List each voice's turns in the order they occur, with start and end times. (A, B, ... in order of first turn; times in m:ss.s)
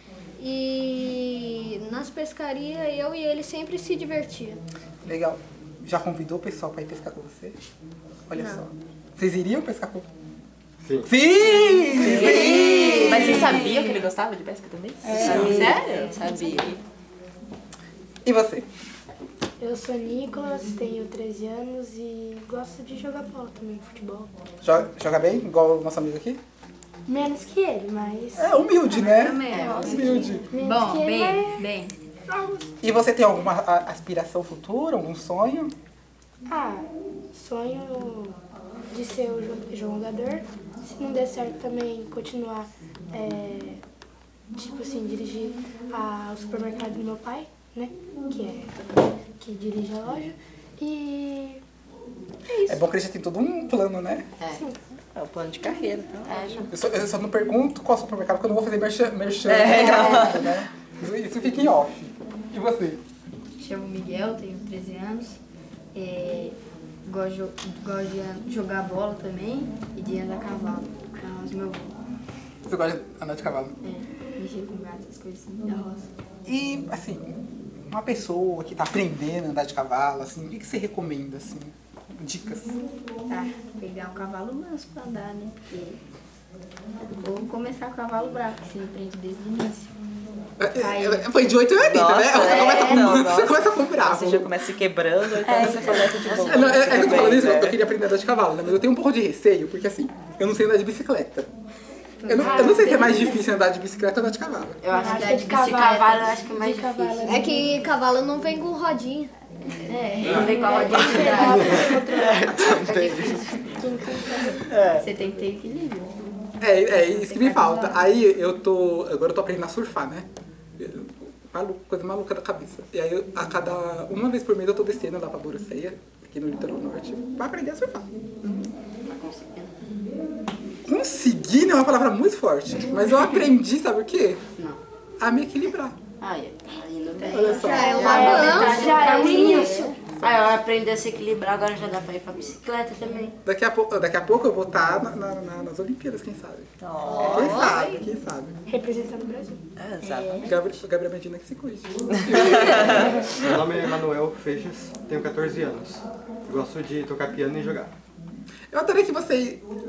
0:00.4-0:04.6 A
0:05.0-0:07.6 B
0:08.3-0:10.1 B
0:08.4-0:08.6 A
0:10.8-0:11.1 C
0:11.0-0:13.6 B
0:11.9-0:16.8 D
0:12.0-0:14.0 E
0:15.0-0:16.8 E
0:15.2-0:15.5 B
0:18.2-0:18.7 B
0:19.6-0:24.3 F
0:24.6-0:26.4 B
0:27.1-0:28.8 F
0:28.4-0:30.5 B
0:28.9-0:32.0 G
0:29.4-0:29.8 A
0:29.5-0:30.2 E
0:29.6-0:31.8 F
0:32.3-0:32.7 F
0:32.8-0:35.7 B
0:36.5-0:38.4 F
0:38.9-0:43.8 F
0:44.6-0:48.7 F
0:49.4-0:51.6 F
0:52.7-0:54.3 B
0:54.4-0:54.6 E
0:55.2-0:56.7 D
0:56.3-0:56.7 E
0:56.7-1:03.0 B
0:59.4-1:00.5 D
0:59.8-1:00.3 E
1:03.6-1:05.4 G
1:05.9-1:12.0 G
1:12.7-1:13.8 B
1:13.8-1:16.1 G
1:16.5-1:22.8 B
1:23.3-1:26.0 G
1:27.0-1:29.9 G
1:30.6-1:34.5 B
1:30.8-1:31.3 G
1:31.8-1:37.8 D
1:32.5-1:33.0 A
1:35.5-1:37.3 E
1:35.6-1:41.5 B
1:42.2-1:44.8 B
1:42.4-1:43.3 E
1:42.4-1:43.4 F
1:44.8-1:47.5 E
1:44.9-1:47.8 F
1:45.2-1:45.6 G
1:47.2-1:49.3 A
1:49.8-1:52.2 G
1:50.2-1:54.2 E
1:50.4-1:52.5 F
1:51.2-1:51.6 A
1:51.6-1:53.4 C
1:53.8-1:54.6 F
1:54.6-1:55.1 D
1:55.0-1:56.3 G
1:56.6-2:00.3 B
1:57.1-1:58.0 G
2:00.8-2:08.1 B
2:09.0-2:09.7 E
2:10.8-2:14.4 B
2:15.2-2:16.0 B
2:16.2-2:23.4 E
2:17.3-2:18.7 B
2:17.5-2:19.9 A
2:17.8-2:19.9 F
2:23.4-2:26.7 B
2:26.8-2:27.9 D
2:27.0-2:28.0 A
2:27.2-2:28.6 B
2:28.7-2:29.6 F
2:29.8-2:30.6 D
2:30.4-2:33.2 B
2:32.3-2:33.0 D
2:32.8-2:37.9 C
2:38.7-2:39.7 B